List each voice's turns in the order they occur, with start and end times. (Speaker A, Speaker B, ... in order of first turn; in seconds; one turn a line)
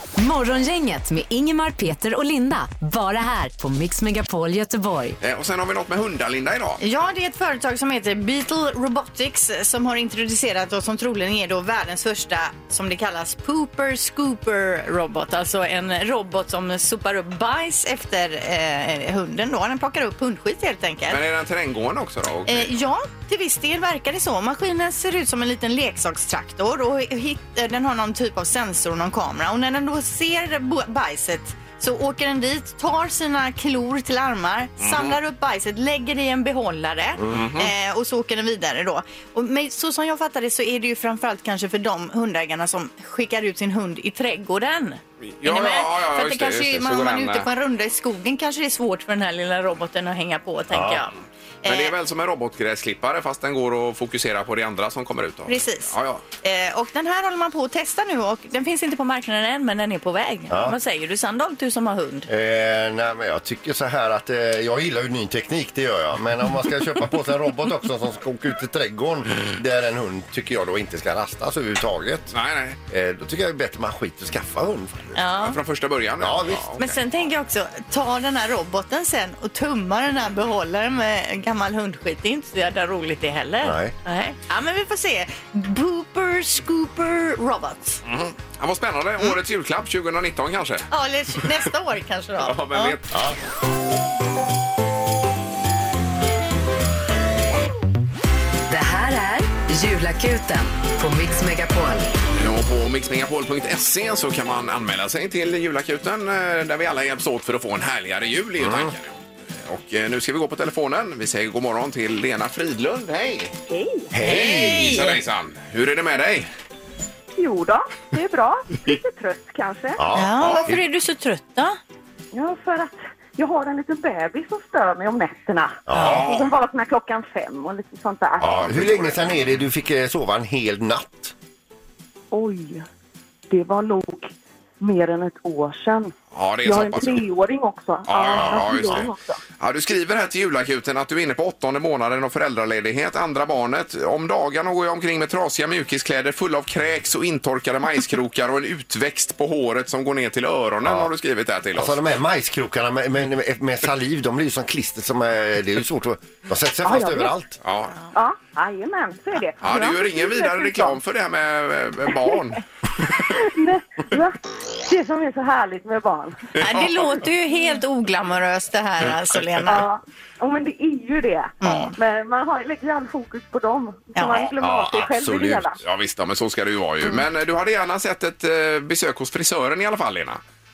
Speaker A: 0.2-5.2
Speaker B: 5.2-6.8
Speaker C: 6.8-21.2
Speaker B: 21.1-22.7
Speaker C: 22.5-51.1
Speaker B: 34.8-35.1
Speaker B: 37.3-37.7
Speaker B: 45.2-47.5
Speaker D: 50.7-51.0
Speaker C: 51.6-51.9
Speaker B: 51.6-56.2
Speaker C: 55.5-62.3
Speaker D: 60.5-60.7
Speaker D: 62.3-72.3
Speaker B: 72.3-72.8
Speaker D: 72.9-75.2
Speaker C: 75.1-75.6
Speaker B: 75.4-77.0
Speaker D: 76.2-76.7
Speaker C: 76.8-88.0
Speaker D: 83.6-84.0
Speaker B: 88.0-90.9
Speaker C: 90.9-93.0
Speaker B: 92.4-93.2
Speaker A: 98.7-102.1
Speaker B: 102.3-113.5
Speaker D: 108.6-108.9
Speaker E: 113.7-114.1
Speaker D: 114.1-115.1
Speaker B: 114.2-116.5
Speaker C: 114.2-115.1
Speaker E: 117.4-120.0
Speaker D: 120.0-120.8
Speaker C: 120.1-121.8
Speaker B: 120.4-120.7
Speaker E: 122.3-128.7
Speaker D: 125.9-126.2
Speaker B: 126.0-126.5
Speaker B: 128.4-129.2
Speaker D: 128.4-131.3
Speaker E: 132.3-132.8
Speaker E: 133.5-139.4
Speaker B: 136.3-137.2
Speaker B: 138.1-139.1
Speaker D: 138.4-139.0
Speaker B: 139.6-152.0
Speaker D: 150.8-151.1
Speaker D: 151.7-157.6
Speaker E: 156.8-157.3
Speaker B: 157.6-157.9
Speaker E: 158.1-161.0
Speaker B: 159.6-162.6
Speaker E: 163.1-166.6
Speaker B: 166.6-167.0
Speaker C: 166.6-169.8
Speaker E: 169.7-175.8
Speaker C: 171.6-171.9
Speaker C: 174.1-174.5
Speaker D: 174.6-175.7
Speaker B: 175.8-180.4